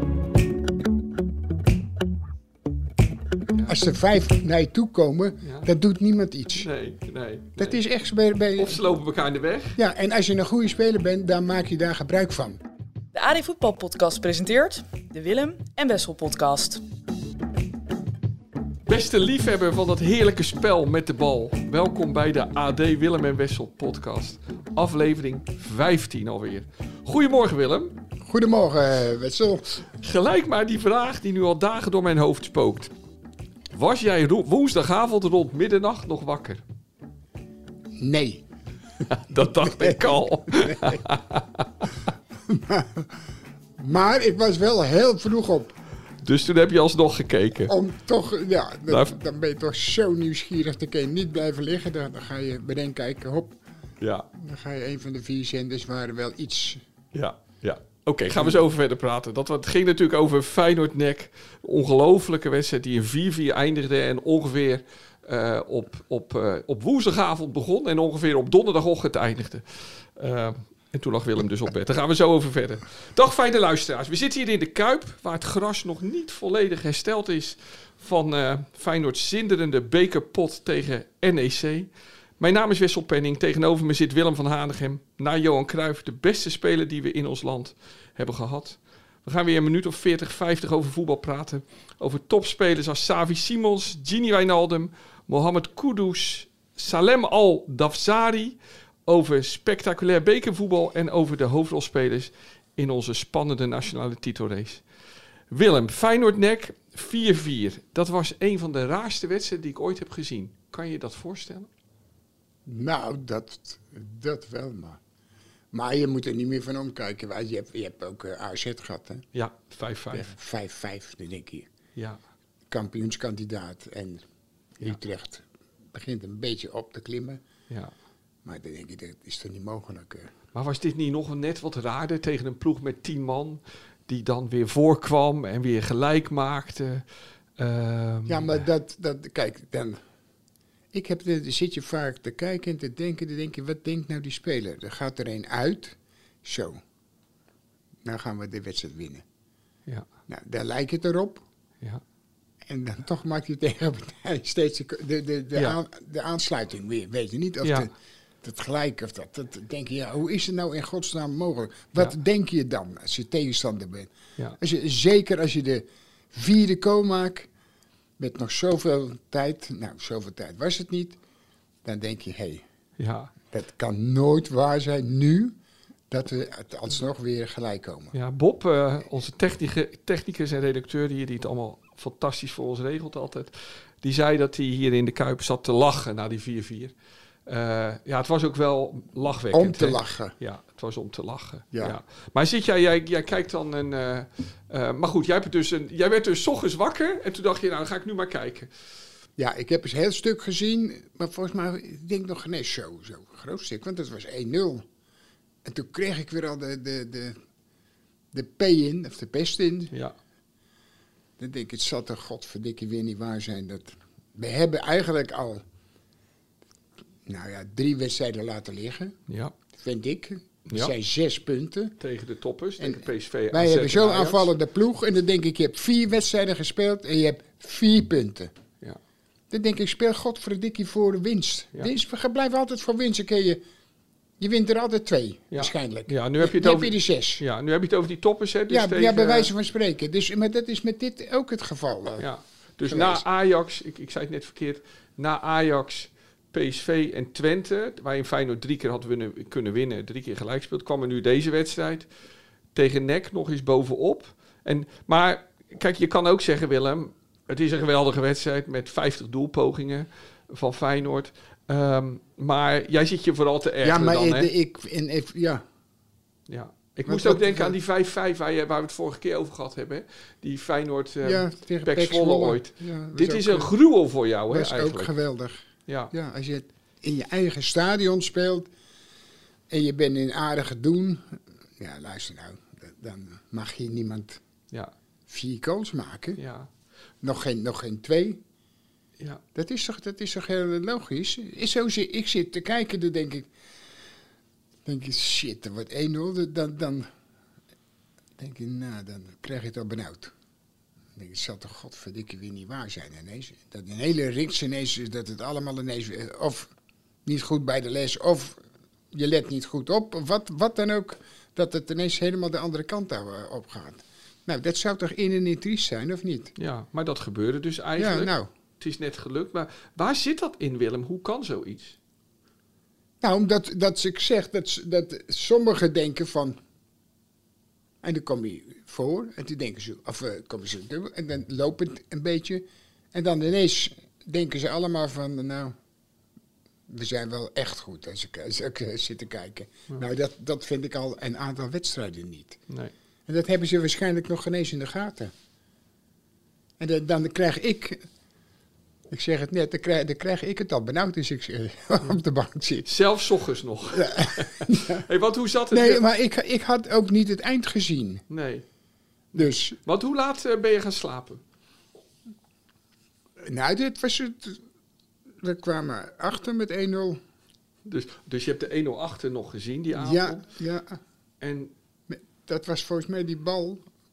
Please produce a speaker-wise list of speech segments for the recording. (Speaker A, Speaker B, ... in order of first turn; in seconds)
Speaker A: 3.7-6.7, 7.6-8.8, 9.8-12.6, 28.2-29.7, 38.0-38.5, 39.3-41.0, 42.5-43.1, 43.8-45.8, 47.7-53.6, 54.4-56.8, 112.7-115.0, 115.7-119.3, 120.1-121.7, 122.7-124.2, 124.8-127.4, 128.4-130.3, 138.3-140.0, 140.9-146.8, 148.0-149.2, 150.3-151.4, 152.7-157.9, 158.4-167.5, 168.2-171.2, 171.8-172.6, 173.5-175.6, 176.1-178.1, 189.5-190.3, 199.4-204.9, 205.6-207.4, 208.3-209.9, 211.4-215.6, 217.3-219.2, 219.7-222.0, 222.8-228.5, 229.5-233.6, 234.4-237.4, 238.7-242.3, 242.8-243.2, 263.8-265.6, 267.1-267.8, 271.2-273.7, 274.5-278.7, 279.7-284.4, 285.3-286.4, 287.2-288.4, 289.6-293.5, 294.9-297.1, 298.4-300.3, 301.2-306.7, 307.3-308.6, 309.1-316.5, 318.0-318.5, 323.2-326.6, 328.0-335.8, 336.9-342.6, 343.3-345.3, 346.8-348.1, 349.1-352.9, 353.9-355.0, 355.7-358.2, 359.4-359.8, 363.4-364.6, 365.4-367.2, 370.0-371.0, 372.1-373.9
Speaker B: 5.4-5.7, 6.6-7.8, 8.6-9.8, 18.9-28.0, 29.9-32.9, 33.7-36.6, 39.1-41.9, 46.2-47.7, 48.9-49.2, 54.0-54.3, 57.1-104.8, 105.5-111.7, 119.3-120.3, 130.5-137.1, 137.6-138.7, 173.0-173.3, 178.1-186.9, 187.5-198.7, 219.3-219.5, 222.0-224.5, 235.5-239.5, 242.2-252.1, 252.8-264.5, 266.5-275.1, 275.9-276.1, 286.4-286.7, 316.6-322.0, 352.9-356.0, 358.3-358.6, 359.3-361.4, 367.9-370.5, 371.4-371.7
Speaker C: 13.1-16.8